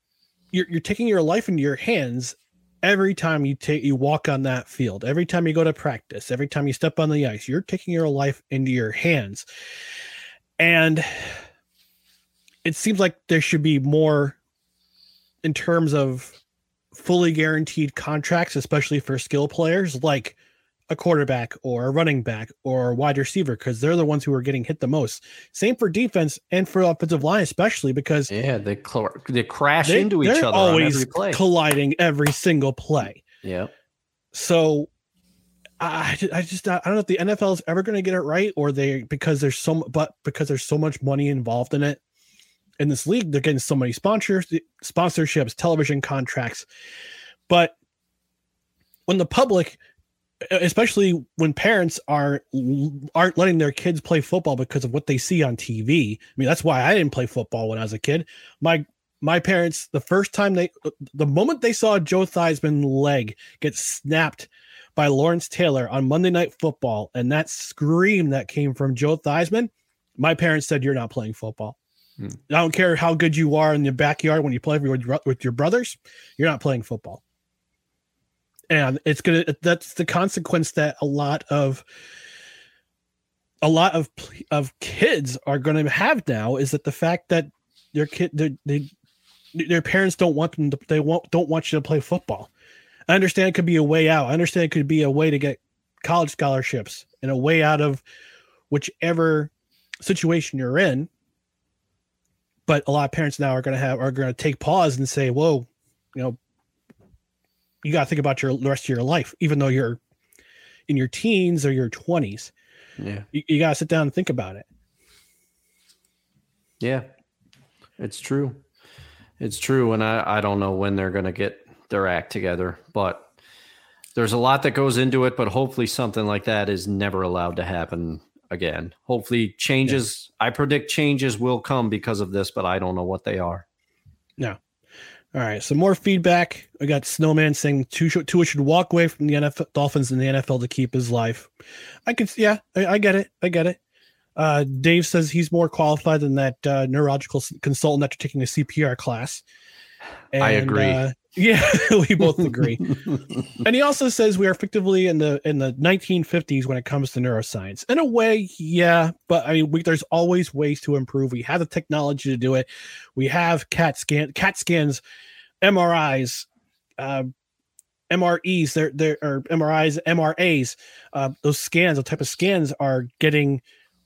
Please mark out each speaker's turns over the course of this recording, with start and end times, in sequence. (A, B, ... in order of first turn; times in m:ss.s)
0:00.5-0:09.5 A
0:10.6-0:11.4 A
0:12.6-0:14.4 A
0:15.4-0:16.4 A
0:16.9-0:20.4 A
0:20.9-0:28.3 A
0:28.3-0:31.4 B
0:29.8-0:33.2 A
0:33.4-0:33.7 B
0:34.3-0:34.9 A
0:35.8-0:42.0 A
0:42.8-0:46.7 A
0:47.5-0:47.7 A
0:49.1-0:49.8 A
0:50.4-1:11.8 A
1:12.5-1:17.2 A
1:18.7-1:21.8 A
1:23.6-1:28.9 A
1:29.6-1:32.5 A
1:33.1-1:38.0 A
1:38.7-1:39.5 A
1:40.0-1:41.1 A
1:42.7-1:46.4 A
1:47.8-1:50.0 A
1:50.9-1:52.5 A
1:53.0-1:53.3 B
1:53.3-1:54.6 A
1:56.8-1:57.1 B
1:58.0-1:58.6 B
1:59.4-2:03.3 B
2:04.2-2:13.6 B
2:15.3-2:21.5 A
2:22.1-2:23.8 A
2:24.4-2:29.4 A
2:30.3-2:32.9 A
2:30.4-2:31.0 B
2:33.6-2:45.0 A
2:45.6-2:46.5 A
2:47.0-2:47.3 A
2:48.1-2:53.6 A